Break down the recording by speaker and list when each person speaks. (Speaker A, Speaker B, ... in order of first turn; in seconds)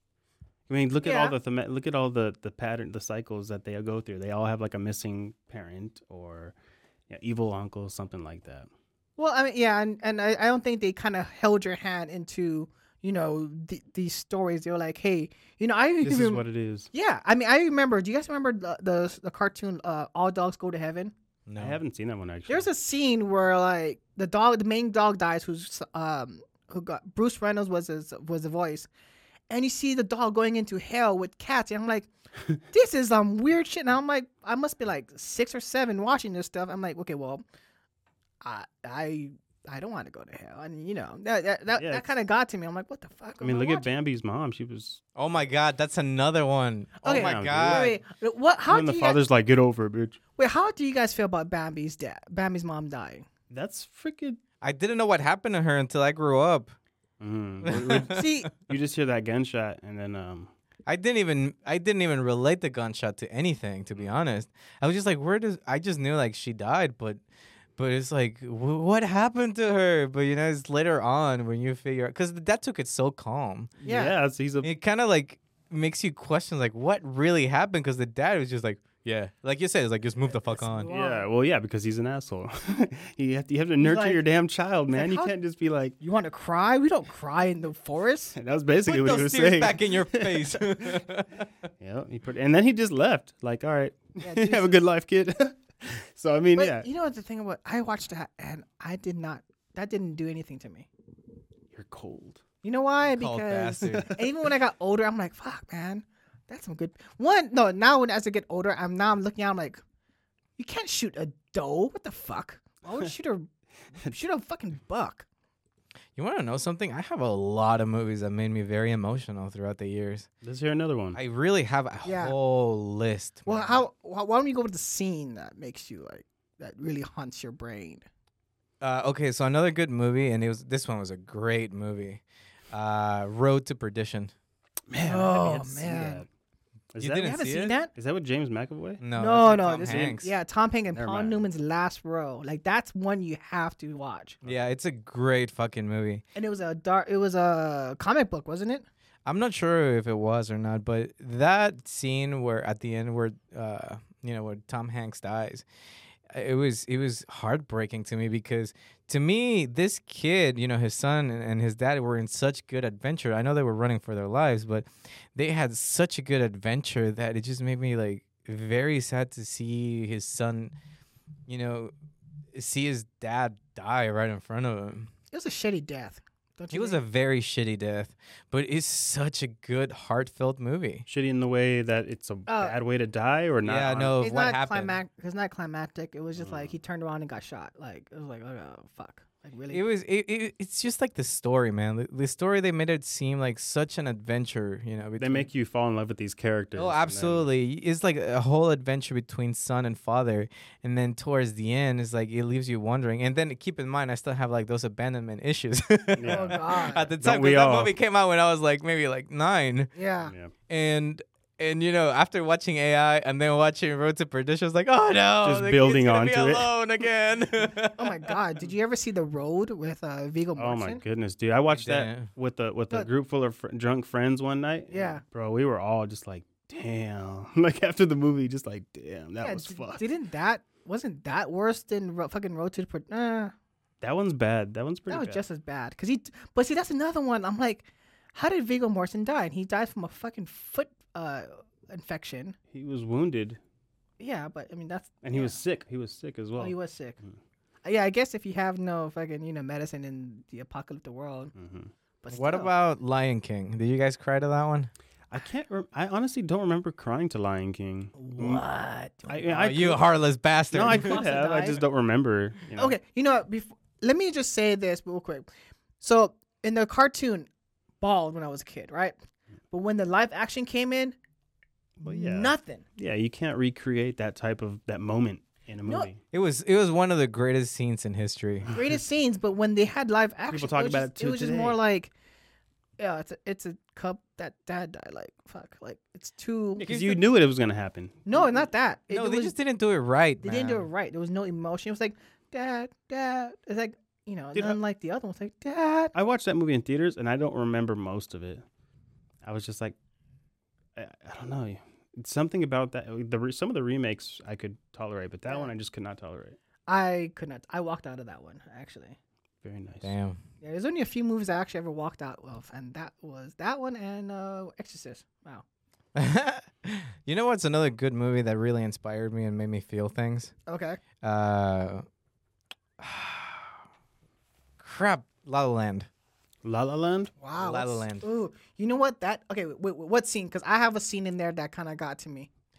Speaker A: 0.7-6.5, 7.1-8.7, 16.0-16.9, 21.6-22.7, 41.8-42.1, 43.4-45.0, 47.1-48.0, 48.7-50.2, 53.5-54.4, 57.2-60.5, 73.8-74.7, 80.9-86.0, 88.3-91.0, 91.8-96.9, 101.7-102.4, 103.8-104.2, 120.4-121.2, 134.9-136.3, 136.9-139.0, 139.6-140.2, 140.9-141.4, 181.1-184.2, 186.4-186.7, 195.2-197.5, 206.2-207.9, 210.3-210.5, 215.4-216.7, 220.6-230.0, 234.0-235.4, 242.7-243.6, 245.2-247.3, 251.6-251.9, 255.3-258.6, 259.3-260.0, 260.7-262.9, 272.0-276.2, 280.5-281.8, 286.8-288.7, 296.1-298.6, 299.4-299.9, 301.0-306.6, 309.6-310.1, 326.6-327.4
Speaker B: 1.0-1.4, 9.2-21.1, 22.5-28.9, 29.5-32.1, 32.7-37.4, 38.4-43.9, 47.0-49.2, 50.4-53.3, 58.1-58.5, 73.8-74.2, 80.3-81.3, 83.8-84.2, 84.9-85.3, 86.0-88.4, 94.2-94.7, 96.6-100.9, 102.6-109.8, 110.6-113.5, 114.0-115.3, 122.0-122.3, 123.5-128.1, 135.0-136.2, 137.2-137.9, 139.2-144.4, 146.4-148.9, 175.3-177.0, 182.5-182.8, 184.2-189.8, 206.3-207.1, 209.9-210.3, 217.9-221.0, 224.9-225.2, 229.4-233.5, 235.1-242.6, 244.2-245.6, 246.6-247.2, 247.8-251.5, 252.2-252.7, 258.2-259.4, 260.9-261.8, 262.8-265.5, 266.0-267.5, 268.0-269.1, 269.7-271.1, 272.0-272.8, 278.7-282.1, 283.0-286.9, 288.3-289.6, 290.4-296.1, 306.9-309.2, 310.6-315.6, 320.7-321.0, 327.4-332.5
Speaker C: 21.5-21.8, 45.2-48.0, 54.6-56.7, 57.6-58.2, 60.9-67.2, 67.8-73.7, 74.6-80.9, 88.9-91.5, 103.0-104.2, 116.2-120.3, 121.1-123.8, 128.8-134.3, 137.0-137.8, 139.0-140.3, 144.4-146.2, 149.3-155.7, 156.3-170.7, 171.5-171.9, 172.5-175.1, 176.7-181.1, 183.6-185.0, 189.7-195.5, 196.8-209.9, 210.7-218.4, 221.8-222.3, 252.3-254.9, 259.5-261.2, 276.3-278.8, 286.8-287.2, 289.1-290.9, 310.0-310.4, 316.1-320.5, 321.2-322.0, 323.0-323.8, 324.8-326.1, 327.6-328.3